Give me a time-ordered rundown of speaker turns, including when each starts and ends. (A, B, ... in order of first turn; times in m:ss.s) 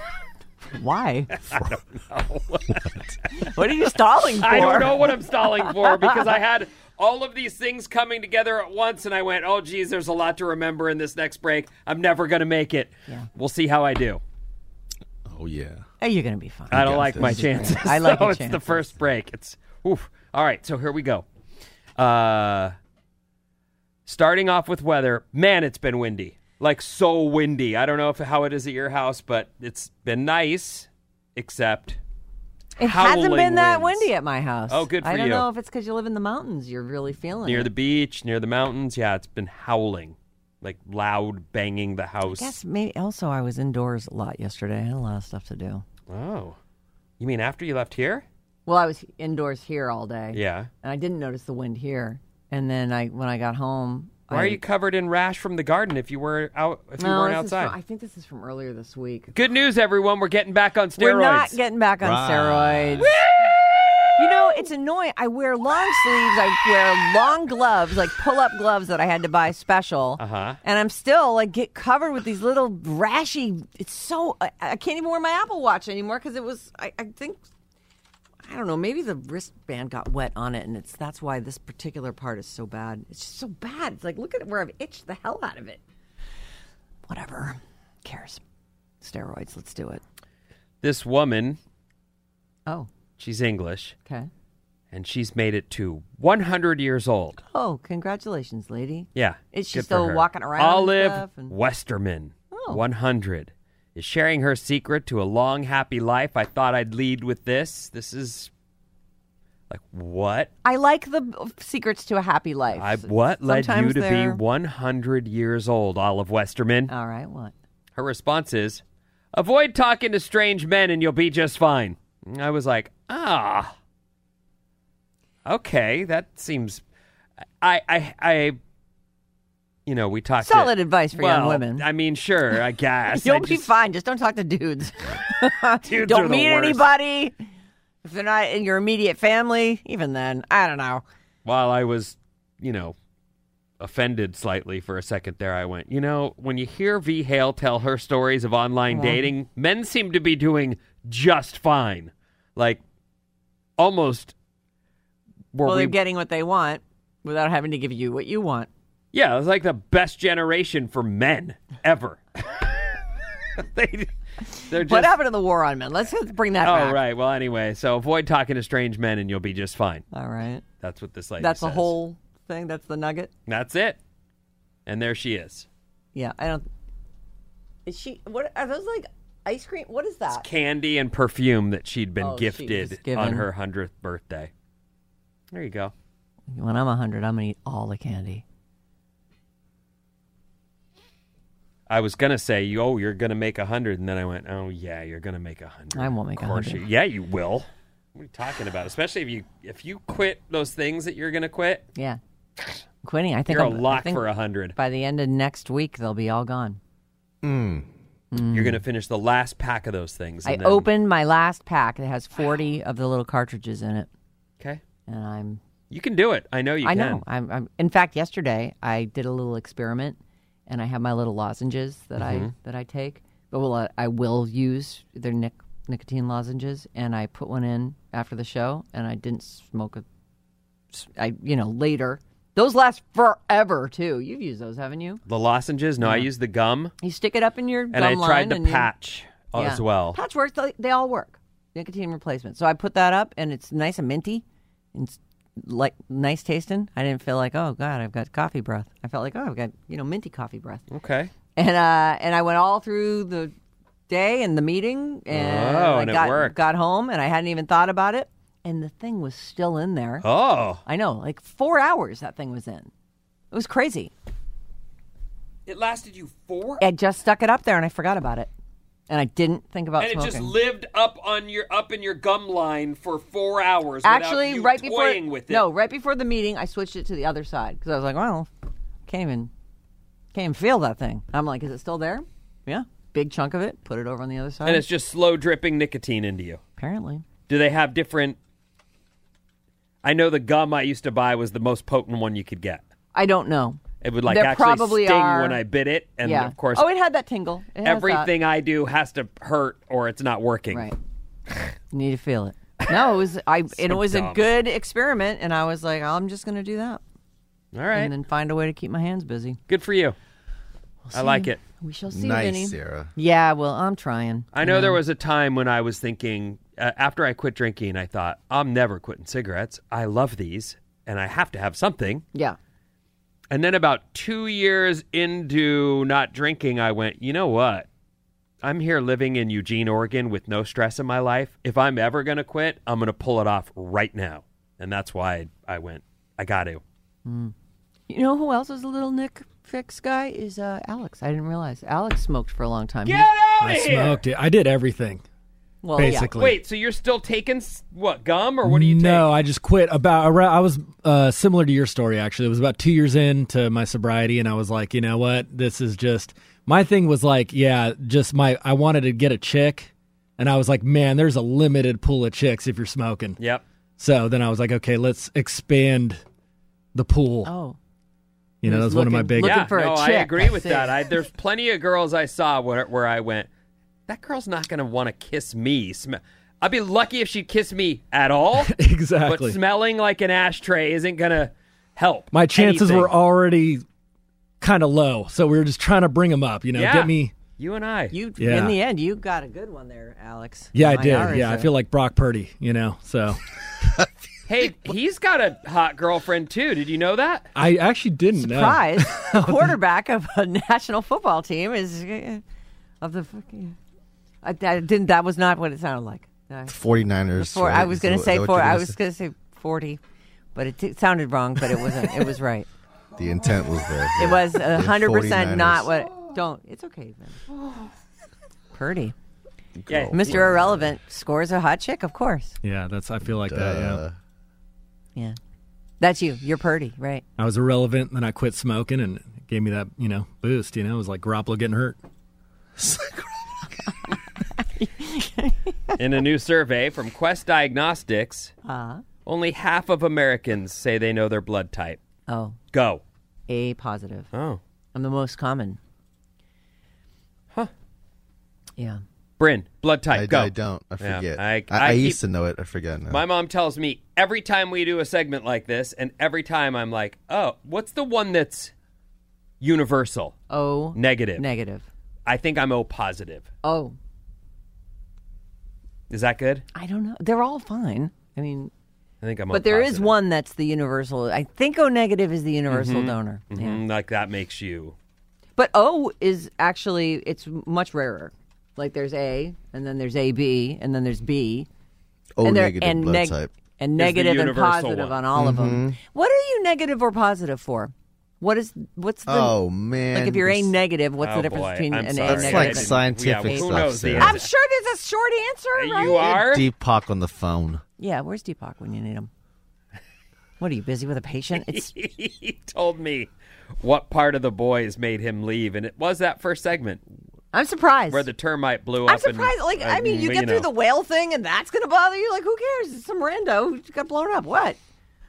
0:00.6-0:01.3 A
0:01.4-0:03.5 B
0:03.3-0:06.2 A
0:04.4-0:14.2 B
0:15.2-0:15.8 C
0:16.0-0:18.9 A
0:16.7-0:17.7 C
0:16.7-0:21.2 B
0:22.0-0:22.7 B
0:24.0-0:32.0 B
0:32.8-0:37.7 A
0:32.8-0:34.1 B
0:34.7-0:35.4 B
0:37.4-0:42.5 B
0:42.2-0:45.8 A
0:46.1-0:46.6 B
0:47.2-0:48.2 B
0:48.6-0:54.6 A
0:50.3-0:50.7 B
0:54.3-0:57.7 B
0:57.0-0:59.3 A
0:59.3-1:01.6 B
1:01.0-1:03.1 A
1:02.0-1:03.1 C
1:03.0-1:04.2 B
1:04.2-1:17.4 A
1:10.2-1:10.6 B
1:18.4-1:25.8 A
1:27.1-1:28.4 A
1:29.0-1:30.0 A
1:30.8-1:31.6 B
1:33.2-1:34.0 B
1:34.9-1:37.4 B
1:37.4-1:41.5 A
1:39.2-1:48.5 B
1:42.5-1:42.8 A
1:49.7-1:50.5 B
1:50.6-1:54.4 A
1:52.7-1:56.9 B
1:56.9-1:57.5 A
1:58.0-1:58.8 B
1:59.3-2:03.7 B
2:05.4-2:06.8 B
2:07.6-2:08.6 B
2:09.8-2:13.7 B
2:10.4-2:11.8 A
2:13.1-2:17.3 A
2:15.9-2:16.8 B
2:18.0-2:21.0 A
2:21.4-2:22.9 B
2:23.8-2:32.8 B
2:28.9-2:29.3 A
2:33.8-2:34.3 B
2:35.5-2:36.0 B
2:35.6-2:38.7 A
2:39.1-2:43.0 B
2:43.5-2:44.1 B
2:44.6-2:47.0 A
2:44.6-2:45.1 B
2:46.6-2:50.0 B
2:50.1-2:50.6 A
2:50.8-2:51.9 B
2:51.4-2:53.3 A
2:53.5-2:54.0 B
2:54.8-2:55.7 B
2:56.1-2:56.7 A
2:57.8-3:00.5 A
3:00.4-3:04.5 B
3:02.2-3:03.5 A
3:05.5-3:05.9 B
3:06.5-3:08.4 A
3:11.9-3:21.8 B
3:15.9-3:16.8 A
3:23.0-3:24.2 A
3:23.5-3:24.8 B
3:24.8-3:26.8 A
3:27.4-3:27.9 C
3:28.3-3:28.8 A
3:28.5-3:30.9 B
3:30.4-3:34.1 A
3:35.1-3:35.6 A
3:35.9-3:37.2 B
3:36.8-3:40.2 A
3:40.7-3:50.0 A
3:42.2-3:42.5 B
3:50.9-3:55.2 A
3:55.3-3:56.9 B
3:56.0-3:56.3 A
3:57.0-3:58.9 A
3:57.9-4:00.2 B
3:59.5-4:10.8 A
4:10.9-4:11.3 B
4:11.6-4:13.5 A
4:14.1-4:20.2 A
4:15.3-4:16.6 B
4:20.2-4:20.8 B
4:20.8-4:22.9 A
4:23.5-4:24.1 A
4:25.6-4:26.8 B
4:26.8-4:28.5 A
4:29.1-4:30.5 A
4:30.0-4:35.7 B
4:34.0-4:38.5 A
4:39.1-4:39.5 A
4:40.3-4:44.8 A
4:44.6-4:46.6 B
4:46.8-4:47.2 A
4:47.5-4:48.4 B
4:50.0-4:52.8 B
4:53.1-4:55.6 A
4:54.0-4:56.9 B
4:56.2-4:58.3 A
4:57.8-5:00.9 B
5:00.7-5:01.0 A
5:01.9-5:07.0 A
5:03.8-5:04.5 B
5:07.7-5:08.1 B
5:07.9-5:09.6 A
5:09.7-5:10.2 B
5:11.0-5:15.0 A
5:11.1-5:11.6 B
5:12.1-5:13.1 C
5:14.5-5:22.2 B
5:23.5-5:27.9 B
5:28.6-5:36.8 B
5:37.2-5:37.5 A
5:38.1-5:43.3 A
5:43.0-5:44.2 B
5:43.6-5:45.2 D
5:45.8-5:46.3 A
5:46.0-5:46.6 D
5:46.0-5:49.3 B
5:48.6-6:03.4 D
6:03.4-6:03.6 B
6:04.0-6:06.2 D
6:06.9-6:07.5 D
6:07.4-6:07.8 A
6:08.6-6:09.7 D
6:08.6-6:10.9 A
6:09.4-6:13.5 B
6:14.1-6:23.1 B
6:18.6-6:19.6 D
6:22.3-6:23.8 D
6:24.6-6:27.3 D
6:26.7-6:28.1 B
6:28.1-6:31.7 A
6:28.4-6:28.7 D
6:30.7-6:33.4 D
6:34.5-6:37.5 B
6:37.6-6:39.7 D
6:38.4-6:42.4 A
6:43.0-6:43.8 A
6:44.4-6:46.8 A
6:46.7-6:49.0 C
6:47.3-6:50.0 A
6:50.5-6:52.7 A
6:53.2-6:55.9 C
6:54.2-6:57.4 A
6:58.7-6:59.1 A
6:59.8-7:00.8 C
6:59.9-7:00.5 B
7:00.2-7:02.6 A
7:02.6-7:04.0 D
7:03.2-7:04.2 C
7:06.0-7:07.2 A
7:07.4-7:12.0 D
7:12.8-7:13.3 C
7:14.6-7:16.0 A
7:16.0-7:18.5 B
7:18.6-7:19.0 A
7:19.2-7:22.0 B
7:22.3-7:22.6 A
7:22.7-7:23.0 B
7:23.5-7:24.3 A
7:24.3-7:24.6 B
7:24.9-7:25.8 A
7:29.4-7:32.2 B
7:30.1-7:33.2 C
7:33.1-7:38.7 B
7:39.6-7:40.4 B
7:40.5-7:41.8 A
7:40.9-7:41.4 B
7:42.2-7:43.4 B
7:43.6-7:44.0 A
7:46.1-7:46.6 B
7:46.7-7:48.7 A
7:49.2-7:50.2 B
7:49.5-7:53.8 A
7:52.7-7:54.9 B
7:55.6-8:01.7 A
8:02.4-8:03.5 C
8:02.4-8:09.6 A
8:04.0-8:05.2 B
8:05.3-8:06.0 C
8:09.2-8:10.8 C
8:10.1-8:16.3 A
8:11.2-8:14.4 B
8:12.2-8:14.4 C
8:15.7-8:16.7 B
8:16.2-8:17.8 C
8:18.0-8:19.3 A
8:20.6-8:21.9 A
8:21.6-8:23.3 B
8:23.8-8:27.0 B
8:27.5-8:28.3 A
8:28.1-8:30.7 B
8:29.0-8:34.8 A